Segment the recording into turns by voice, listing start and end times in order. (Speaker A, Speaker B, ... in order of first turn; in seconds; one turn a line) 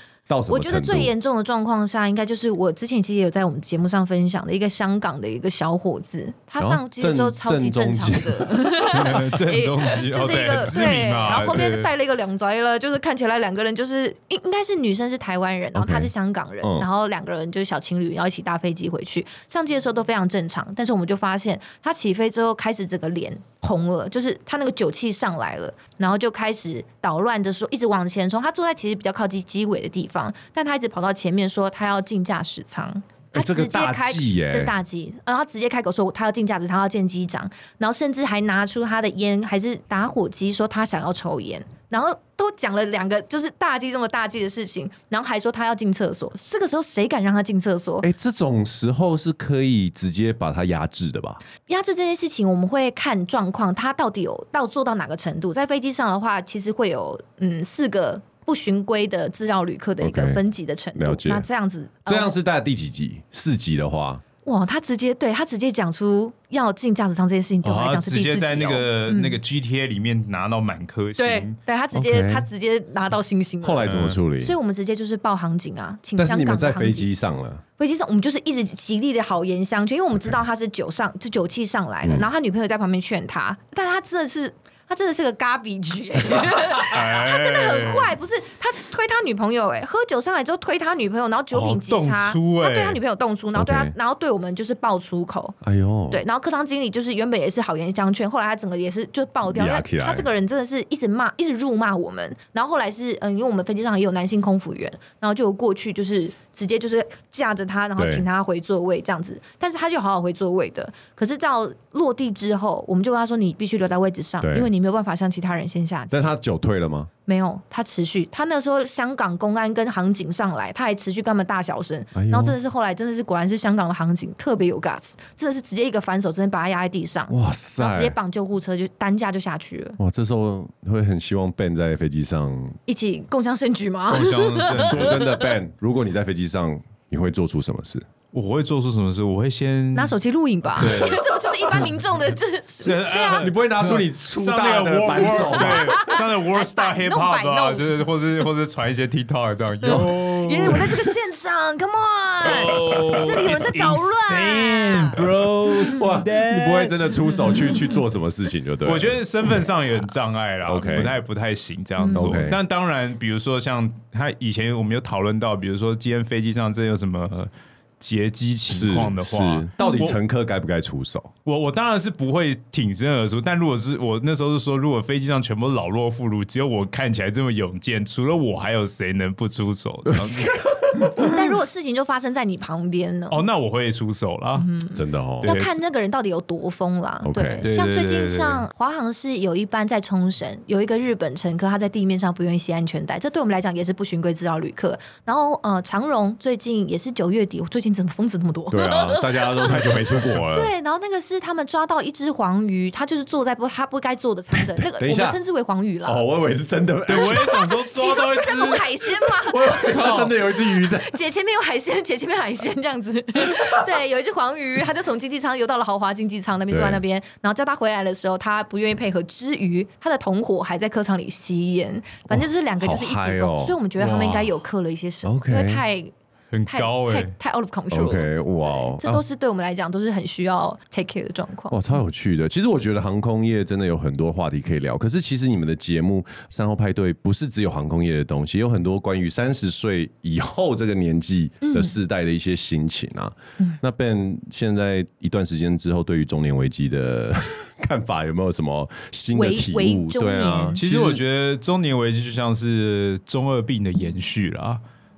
Speaker A: 0.3-1.1
Speaker B: 0.5-48.1
Speaker A: 6.6-8.5
Speaker C: 8.9-11.9
Speaker A: 15.7-16.9
Speaker A: 33.3-34.7
Speaker A: 48.0-51.4
Speaker B: 51.7-62.3
Speaker A: 60.0-60.4
Speaker A: 60.9-61.5
Speaker A: 62.0-64.2
Speaker B: 64.4-69.4
Speaker C: 67.6-71.5
Speaker B: 71.2-77.1
Speaker A: 71.9-72.5
Speaker A: 73.6-74.5
Speaker C: 73.8-74.2
Speaker A: 76.2-77.6
Speaker B: 77.8-95.6
Speaker C: 86.8-88.1
Speaker C: 91.5-93.0
Speaker A: 93.5-93.9
Speaker A: 95.6-96.2
Speaker B: 96.1-116.3
Speaker A: 99.5-100.3
Speaker A: 108.0-108.2
Speaker A: 114.4-114.7
Speaker A: 116.1-117.1
Speaker B: 117.3-130.0
Speaker A: 122.1-122.6
Speaker A: 127.3-128.2
Speaker A: 130.0-132.8
Speaker B: 132.9-135.4
Speaker C: 134.1-135.2
Speaker A: 134.7-138.0
Speaker C: 138.3-140.1
Speaker B: 139.9-143.5
Speaker C: 140.7-141.3
Speaker C: 142.8-151.1
Speaker A: 143.4-146.0
Speaker B: 145.2-148.0
Speaker B: 149.8-155.2
Speaker C: 152.4-157.0
Speaker A: 152.6-153.7
Speaker A: 155.9-159.7
Speaker C: 158.8-170.2
Speaker A: 160.7-161.2
Speaker B: 162.0-162.4
Speaker A: 162.1-162.6
Speaker A: 168.7-171.3
Speaker B: 169.8-170.1
Speaker C: 171.4-180.5
Speaker A: 180.1-181.4
Speaker B: 181.2-183.4
Speaker C: 183.3-184.7
Speaker B: 184.6-206.2
Speaker A: 184.9-185.6
Speaker C: 185.4-185.8
Speaker A: 187.2-187.7
Speaker C: 187.6-188.6
Speaker A: 198.7-200.7
Speaker A: 204.5-205.4
Speaker A: 206.0-207.6
Speaker C: 207.1-209.1
Speaker B: 207.1-226.1
Speaker A: 209.5-211.1
Speaker C: 209.8-210.3
Speaker A: 216.7-217.0
Speaker A: 222.3-223.8
Speaker C: 224.0-224.5
Speaker A: 225.2-225.8
Speaker C: 226.5-227.3
Speaker B: 226.7-231.8
Speaker A: 227.9-229.2
Speaker A: 231.7-251.2
Speaker B: 241.6-241.9
Speaker B: 249.3-250.8
Speaker C: 250.8-254.8